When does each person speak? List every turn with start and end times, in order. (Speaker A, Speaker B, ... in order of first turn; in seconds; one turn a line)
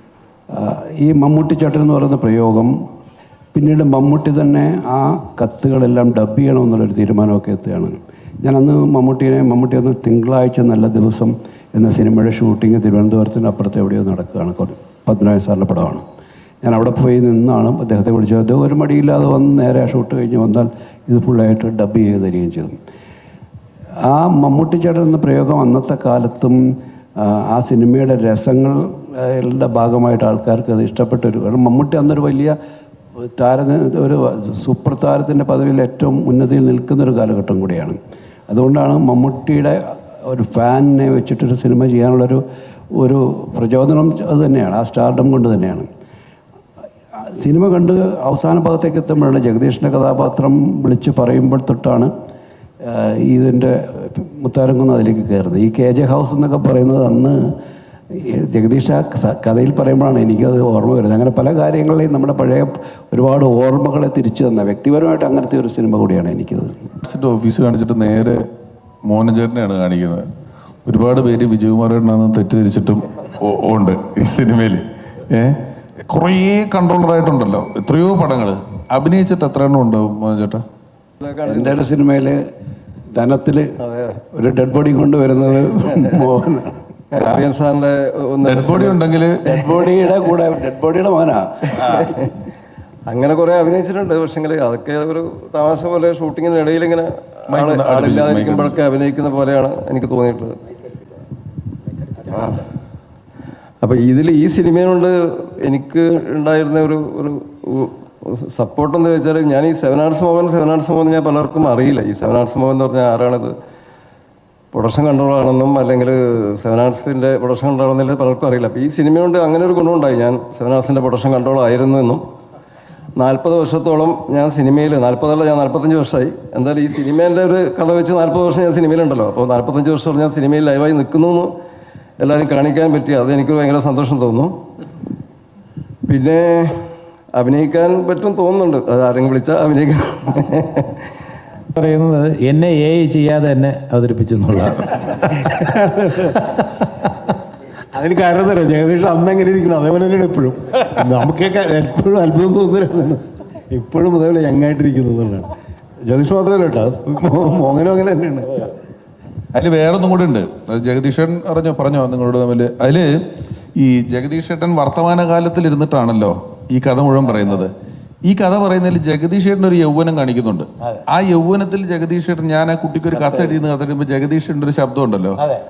Speaker A: 0.5-2.7
Speaker A: 3.5-16.0
Speaker A: 16.6-22.7
Speaker A: 24.1-26.6
Speaker A: 27.2-32.5
Speaker A: 33.4-38.0
Speaker A: 38.5-42.4
Speaker A: 43.0-45.9
Speaker A: 47.3-52.1
Speaker A: 52.8-57.4
Speaker A: 58.1-66.9
Speaker B: 67.0-68.4
Speaker B: 69.0-70.2
Speaker B: 70.8-75.6
Speaker B: 76.1-80.6
Speaker C: 81.2-81.7
Speaker A: 81.5-82.3
Speaker A: 83.1-83.7
Speaker C: 83.8-84.1
Speaker A: 84.2-86.8
Speaker C: 87.1-89.0
Speaker B: 88.4-89.4
Speaker A: 89.5-91.9
Speaker C: 93.1-100.6
Speaker B: 97.5-98.8
Speaker C: 102.3-102.6
Speaker C: 103.8-113.5
Speaker C: 114.7-122.2
Speaker C: 123.2-131.5
Speaker C: 132.2-134.6
Speaker C: 136.1-141.1
Speaker D: 141.8-145.1
Speaker E: 148.0-155.5
Speaker E: 156.1-158.7
Speaker B: 159.5-163.2
Speaker B: 163.8-167.7
Speaker B: 168.2-175.4